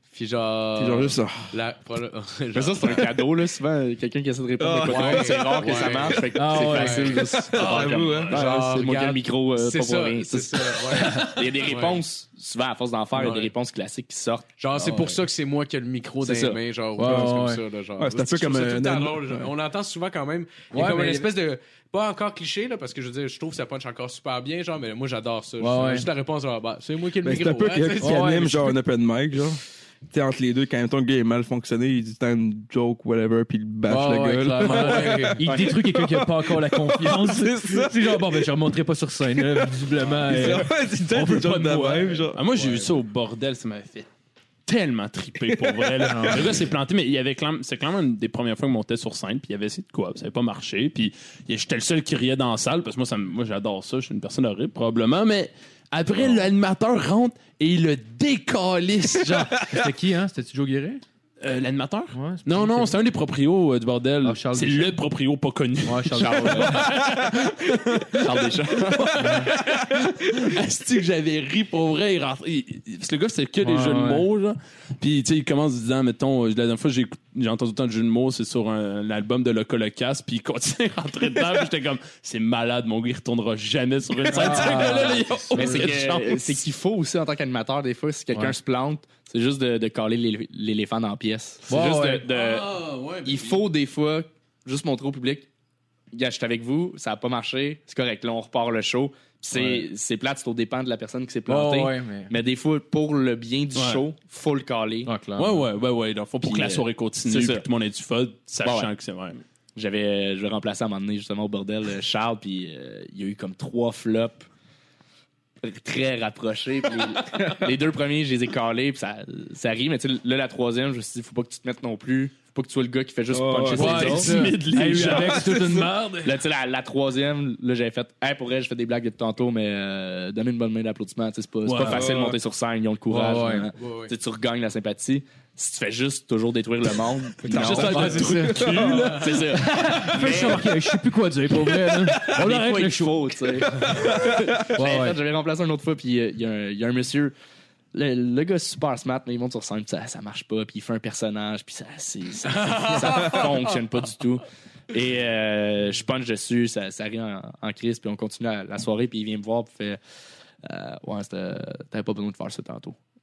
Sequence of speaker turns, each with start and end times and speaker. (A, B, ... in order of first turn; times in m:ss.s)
0:00.1-0:03.2 A
0:00.8-0:01.5 B
0:02.5-0:14.5 C
0:04.6-0:06.3 B
0:04.8-0:07.3 A
0:06.3-0:07.2 D
0:07.1-0:08.7 B
0:07.5-0:08.4 E
0:08.3-0:12.0 A
0:11.0-0:11.4 D
0:13.2-0:13.5 A
0:14.6-0:28.7 A
0:14.8-0:15.2 D
0:16.2-0:16.6 C
0:17.0-0:17.6 D
0:17.0-0:17.3 B
0:18.0-0:19.5 B
0:20.7-0:21.3 D
0:25.6-0:26.1 D
0:27.2-0:38.5 B
0:28.0-0:28.7 D
0:33.9-0:42.3 D
0:34.6-0:35.4 A
0:35.4-0:35.8 C
0:39.4-0:42.9 B
0:42.3-0:44.1 E
0:44.7-0:59.6 E
0:45.4-0:46.6 B
0:46.0-0:46.6 D
0:59.2-1:01.0 D
1:01.4-1:26.6 E
1:02.1-1:03.0 D
1:04.2-1:05.0 D
1:05.8-1:06.8 D
1:06.2-1:07.2 C
1:08.1-1:09.4 C
1:09.2-1:09.5 D
1:13.6-1:14.3 D
1:24.3-1:25.9 D
1:25.5-1:35.5 C
1:31.7-1:32.3 D
1:32.3-1:33.6 E
1:36.1-1:45.2 C
1:41.5-1:42.3 D
1:43.7-1:44.0 E
1:45.0-1:45.6 D
1:45.4-1:49.4 E
1:46.4-1:47.7 C
1:48.6-1:48.9 C
1:49.8-1:54.5 C
1:55.6-2:04.3 C
2:03.3-2:04.2 B
2:03.7-2:06.4 D
2:03.8-2:05.5 E
2:05.0-2:05.9 B
2:06.2-2:20.8 C
2:11.6-2:12.1 E
2:11.8-2:12.4 B
2:13.1-2:13.7 D
2:13.8-2:14.1 A
2:17.4-2:19.3 B
2:17.5-2:19.5 E
2:17.5-2:18.9 D
2:19.5-2:23.4 D
2:22.1-2:27.3 C
2:23.8-2:24.7 B
2:24.8-2:25.2 D
2:27.9-2:40.0 C
2:32.5-2:33.6 A
2:40.6-2:43.0 C